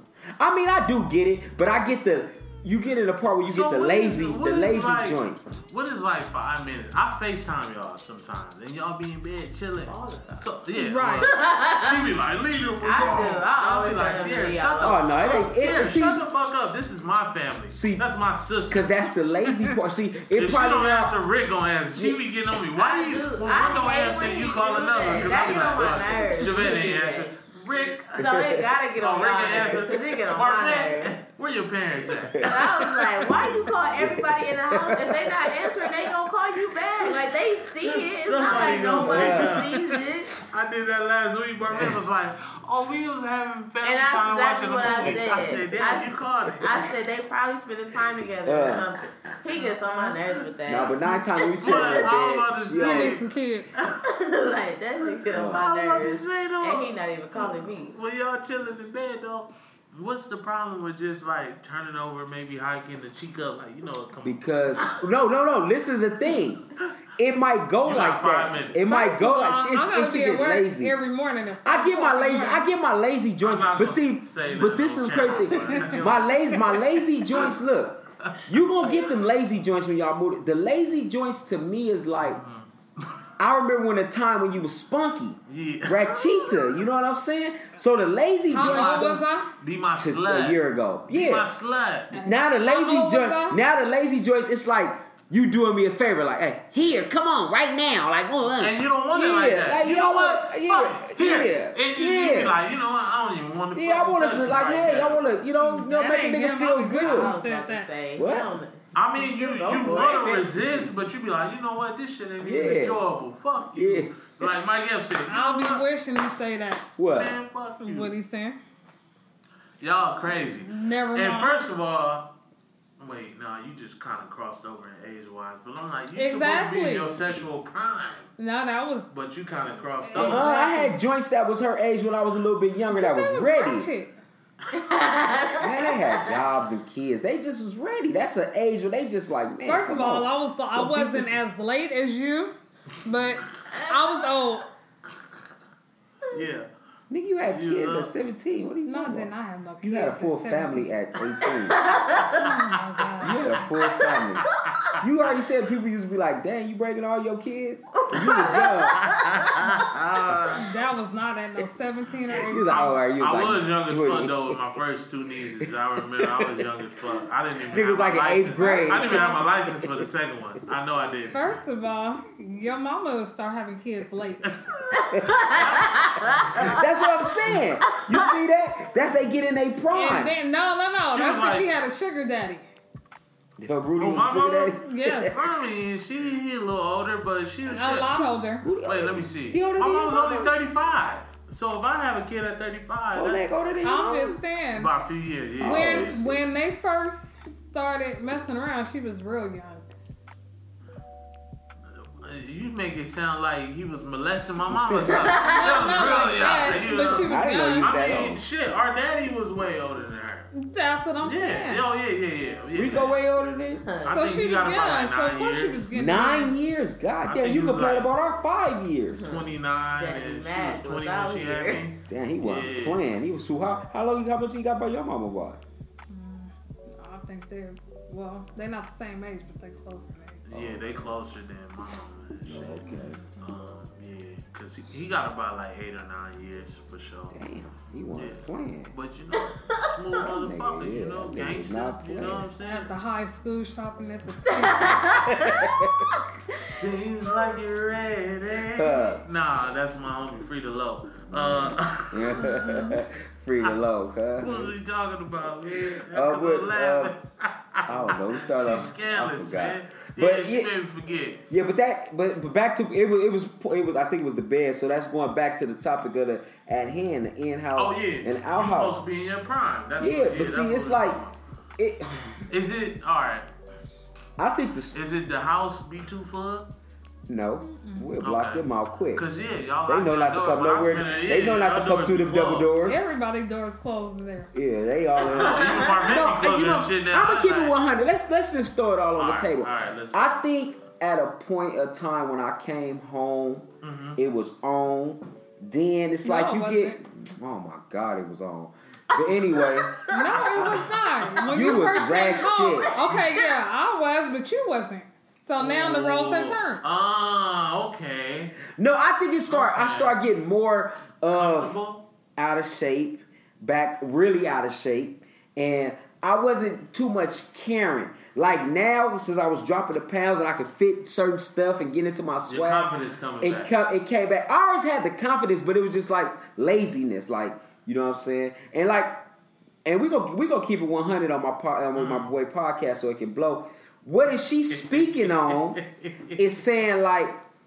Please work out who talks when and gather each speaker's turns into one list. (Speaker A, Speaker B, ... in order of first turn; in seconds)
Speaker A: 0.4-5.4, 14.8-16.2, 17.7-18.1, 18.7-21.1, 22.0-22.2, 28.2-28.6, 32.3-33.1, 34.0-36.0, 38.9-39.6, 48.5-48.9, 50.7-53.2, 55.3-55.6, 64.2-71.0, 71.6-82.4, 83.4-89.2, 90.0-91.5, 92.2-102.6, 103.7-107.3, 108.2-108.5, 109.6-110.1, 112.4-113.0, 113.8-114.5, 117.0-117.4, 130.2-133.9, 135.6-141.4, 147.1-149.3, 149.8-151.8, 153.2-159.1, 162.3-164.6, 166.1-167.1, 167.7-170.0, 175.1-175.4, 176.6-180.3, 183.6-185.4, 187.8-190.5, 193.1-194.4, 195.6-196.3, 207.0-208.4, 212.7-213.9, 215.9-219.3, 222.1-225.6, 230.5-230.9, 232.4-233.2, 237.3-238.9, 240.2-242.5, 245.2-246.1, 248.7-249.2, 251.3-254.7, 256.1-257.2, 257.9-260.7, 261.5-269.0, 270.0-271.2, 271.8-272.5, 274.4-275.0, 277.3-279.2, 279.9-283.0, 284.5-300.9, 301.4-303.0, 305.6-306.2, 308.8-311.8, 312.4-329.2, 329.9-337.4
Speaker B: 3.5-19.1, 20.4-28.3, 29.0-33.5, 38.2-46.9, 50.3-50.9, 51.5-53.2, 55.3-64.9, 67.8-68.9, 73.4-77.5, 82.2-83.2, 85.5-86.8, 88.5-92.2, 98.6-105.3, 109.0-115.8, 117.1-118.2, 119.8-122.3, 123.0-128.3, 129.1-130.5, 146.3-146.7, 147.5-148.1, 152.4-153.6, 154.4-155.3, 158.9-160.6, 162.7-171.5, 174.5-176.6, 181.1-181.7, 184.0-188.3, 188.8-193.6, 194.8-196.4, 201.9-210.5, 211.2-213.2, 214.0-215.9, 217.3-218.1, 219.2-223.0, 230.5-237.4, 238.2-242.9, 246.7-252.8, 254.4-261.4, 267.8-271.4, 272.5-273.5, 274.9-276.7, 278.2-282.8, 285.2-287.8, 289.1-290.5, 293.8-294.2, 305.7-308.6, 309.5-310.2, 311.4-312.1, 322.5-323.7, 331.9-332.3, 334.7-336.4
Speaker C: 9.8-10.6, 11.3-12.1, 12.8-15.5, 22.8-27.3, 28.1-31.2, 32.4-40.4, 43.8-52.1, 53.9-57.9, 75.8-76.2, 107.0-110.7, 134.7-136.4, 143.7-144.2, 151.5-152.6, 158.0-160.6, 175.0-176.9, 205.1-206.4, 213.8-214.2, 219.2-221.9, 239.7-239.9, 244.5-246.8, 285.3-286.2, 299.3-300.6, 301.4-303.5
Speaker D: 10.7-11.3, 52.8-53.7, 68.8-72.7, 88.5-89.5, 92.1-93.6, 105.6-107.9, 115.3-116.9, 117.8-118.6, 120.5-121.5, 126.2-127.1, 128.4-129.1, 130.0-131.0, 132.9-134.1, 139.7-144.7, 148.9-150.9, 152.3-153.6, 160.5-163.0, 168.5-169.4, 171.3-174.5, 179.9-182.7, 184.8-185.4, 187.7-188.7, 193.8-194.9, 195.6-199.9, 205.4-208.2, 210.5-211.8, 214.1-216.6, 226.1-230.5, 232.8-233.5, 242.7-245.4, 252.5-253.0, 277.7-278.1, 282.8-284.5, 296.2-297.0, 300.1-306.8